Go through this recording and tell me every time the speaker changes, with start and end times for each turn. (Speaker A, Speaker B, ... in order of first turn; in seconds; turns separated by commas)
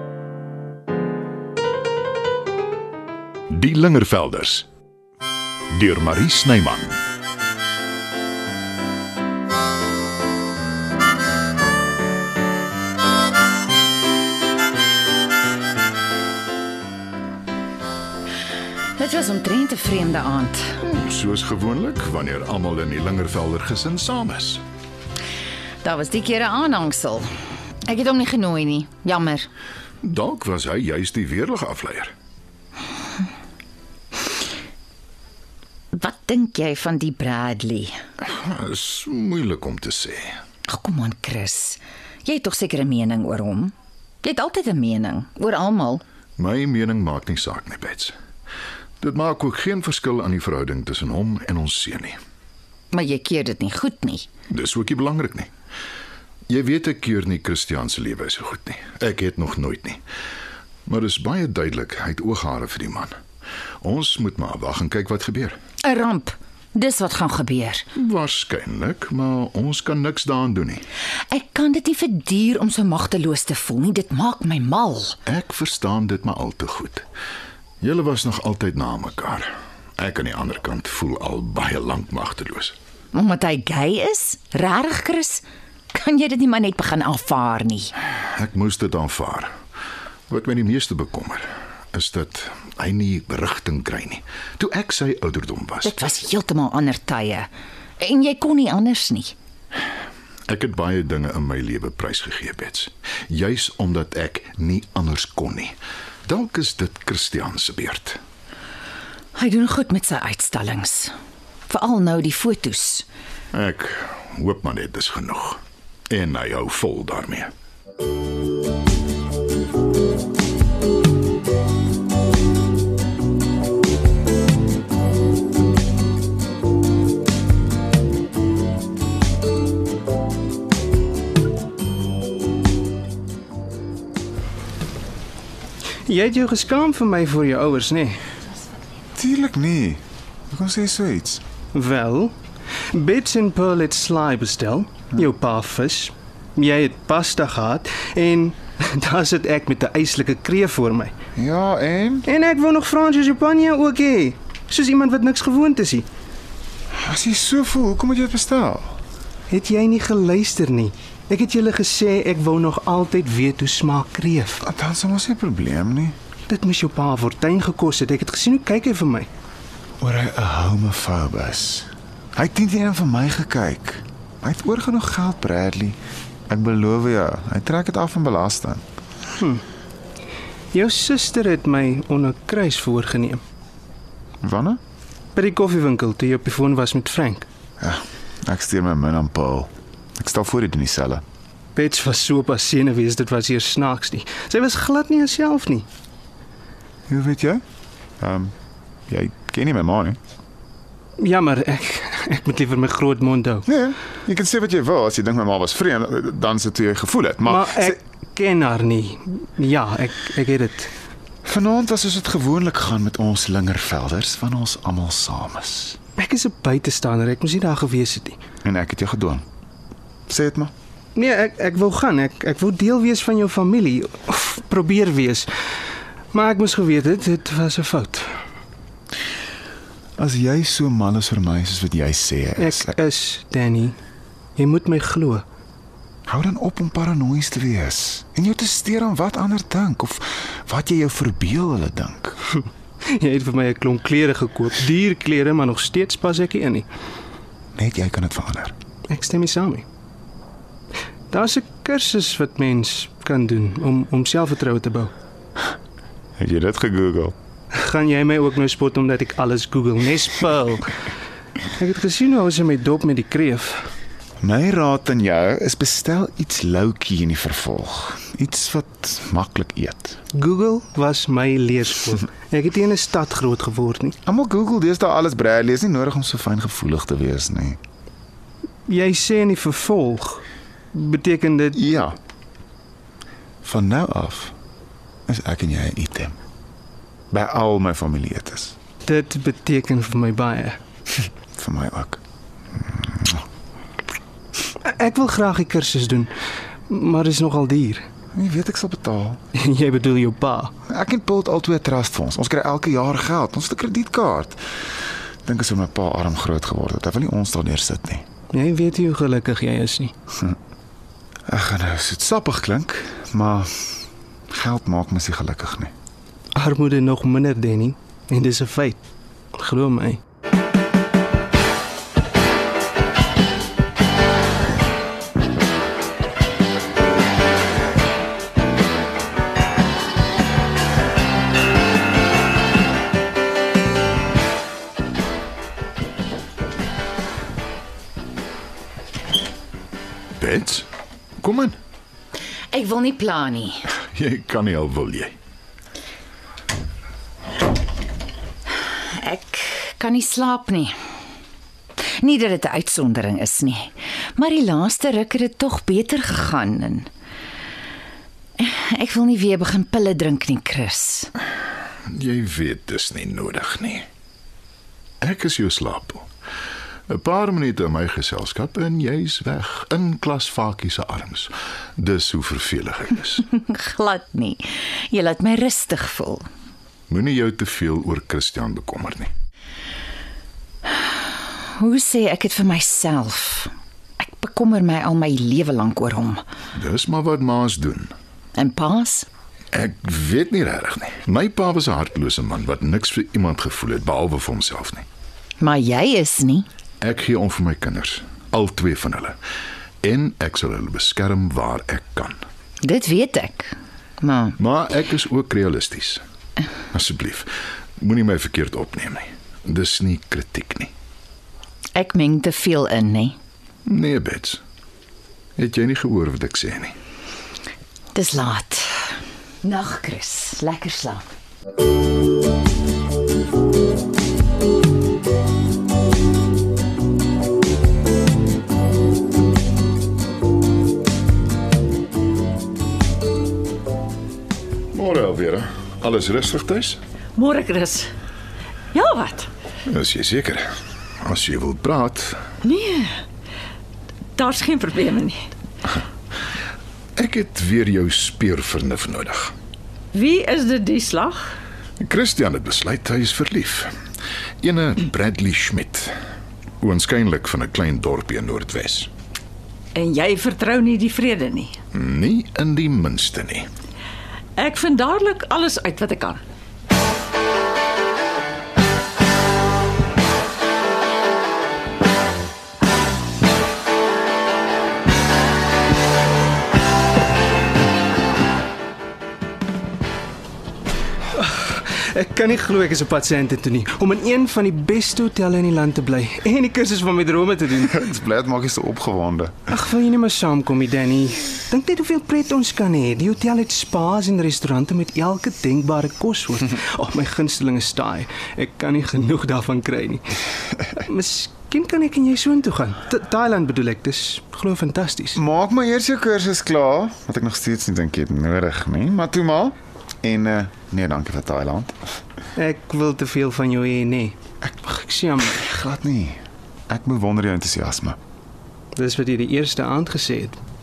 Speaker A: 3.5-4.7, Speaker A: 5.7-6.9, Speaker B: 19.0-20.8, Speaker A: 20.8-24.6, Speaker B: 25.8-27.3, Speaker B: 27.9-29.5, Speaker A: 30.0-32.1, Speaker B: 35.9-38.0, Speaker A: 38.2-40.4, Speaker B: 40.7-46.0, Speaker A: 46.4-48.1, Speaker A: 49.0-52.2, Speaker B: 52.9-54.3, Speaker A: 54.5-55.5, Speaker A: 56.5-60.0, Speaker A: 60.9-63.1, Speaker A: 63.8-65.5, Speaker B: 65.8-67.8, Speaker A: 68.0-70.8, Speaker B: 71.3-75.2, Speaker A: 75.2-77.0, Speaker A: 77.8-82.8, Speaker B: 83.1-87.9, Speaker A: 88.3-89.5, Speaker A: 90.3-96.0, Speaker B: 95.8-97.5, Speaker B: 98.0-99.3, Speaker A: 100.5-105.7, Speaker A: 106.2-108.2, Speaker B: 109.3-111.1, Speaker B: 111.7-113.0, Speaker A: 113.5-117.5, Speaker C: 136.1-138.2, Speaker D: 139.1-141.4, Speaker C: 141.7-142.3, Speaker C: 142.9-151.1, Speaker D: 151.3-152.2, Speaker C: 152.3-156.1, Speaker D: 156.9-158.9, Speaker C: 159.5-164.4, Speaker D: 164.6-166.2, Speaker C: 166.5-169.3, Speaker D: 170.0-176.0, Speaker D: 176.5-178.8, Speaker C: 180.7-183.4, Speaker D: 184.4-184.8, Speaker C: 185.3-187.4, Speaker D: 187.8-191.2, Speaker C: 191.7-195.8, Speaker D: 197.1-197.6, Speaker D: 198.2-198.5, Speaker D: 199.1-200.2, Speaker C: 201.2-203.6, Speaker D: 203.7-208.0, Speaker C: 208.3-210.9, Speaker D: 211.4-216.0, Speaker C: 216.2-218.4, Speaker D: 218.6-219.4, Speaker D: 220.3-220.7, Speaker C: 221.2-225.4, Speaker C: 226.3-228.2, Speaker D: 230.2-232.9, Speaker C: 232.8-233.9, Speaker C: 234.6-235.4, Speaker D: 236.3-242.4, Speaker C: 243.2-246.8, Speaker D: 247.7-248.7, Speaker C: 249.1-249.8, Speaker C: 251.3-255.1, Speaker D: 256.4-257.3, Speaker C: 257.8-260.9, Speaker C: 261.8-263.8, Speaker D: 264.4-270.2, Speaker C: 270.3-274.1, Speaker D: 274.2-277.8, Speaker C: 278.9-281.7, Speaker D: 281.7-282.1, Speaker D: 283.6-284.5, Speaker D: 285.3-286.4, Speaker D: 287.3-288.7, Speaker C: 289.1-290.8, Speaker D: 291.6-292.2, Speaker D: 292.7-293.4, Speaker C: 295.0-296.3, Speaker C: 296.9-298.0, Speaker D: 298.3-299.4, Speaker C: 299.7-300.7, Speaker D: 300.9-304.6, Speaker D: 305.4-308.2, Speaker C: 308.5-310.1, Speaker D: 311.5-313.9, Speaker D: 314.5-315.9, Speaker C: 316.6-318.9, Speaker C: 319.6-320.2, Speaker A: 340.4-340.9, Speaker A: 341.4-341.8, Speaker B: 342.7-343.8, Speaker A: 344.1-345.3, Speaker B: 349.1-350.9, Speaker B: 352.2-357.1, Speaker B: 358.6-361.3, Speaker A: 362.1-364.1, Speaker A: 365.2-366.2, Speaker A: 367.1-373.5, Speaker B: 373.5-376.4, Speaker A: 377.1-379.3, Speaker B: 381.8-386.4, Speaker A: 386.7-388.1, Speaker B: 388.6-389.3, Speaker A: 389.7-395.0, Speaker B: 395.6-396.6, Speaker A: 397.0-399.4, Speaker A: 400.0-402.4, Speaker B: 402.8-404.6, Speaker A: 404.6-406.2, Speaker A: 406.9-410.9, Speaker B: 411.9-413.4, Speaker A: 413.9-414.6, Speaker A: 415.6-416.9, Speaker B: 418.1-421.2, Speaker A: 434.9-437.0, Speaker E: 437.4-438.1, Speaker E: 438.9-439.5, Speaker A: 439.9-440.6, Speaker A: 441.2-442.4, Speaker E: 442.6-443.2, Speaker E: 444.4-445.4, Speaker A: 447.1-449.5, Speaker E: 450.1-451.6, Speaker A: 452.0-453.9, Speaker A: 454.6-456.1, Speaker A: 456.8-459.1, Speaker E: 459.9-461.8, Speaker A: 461.9-463.6, Speaker E: 464.6-466.4, Speaker C: 481.3-487.7, Speaker D: 487.8-489.6, Speaker C: 489.7-500.2, Speaker C: 501.1-505.3, Speaker D: 505.3-511.9, Speaker C: 512.5-515.5, Speaker D: 515.6-518.2, Speaker C: 519.0-520.5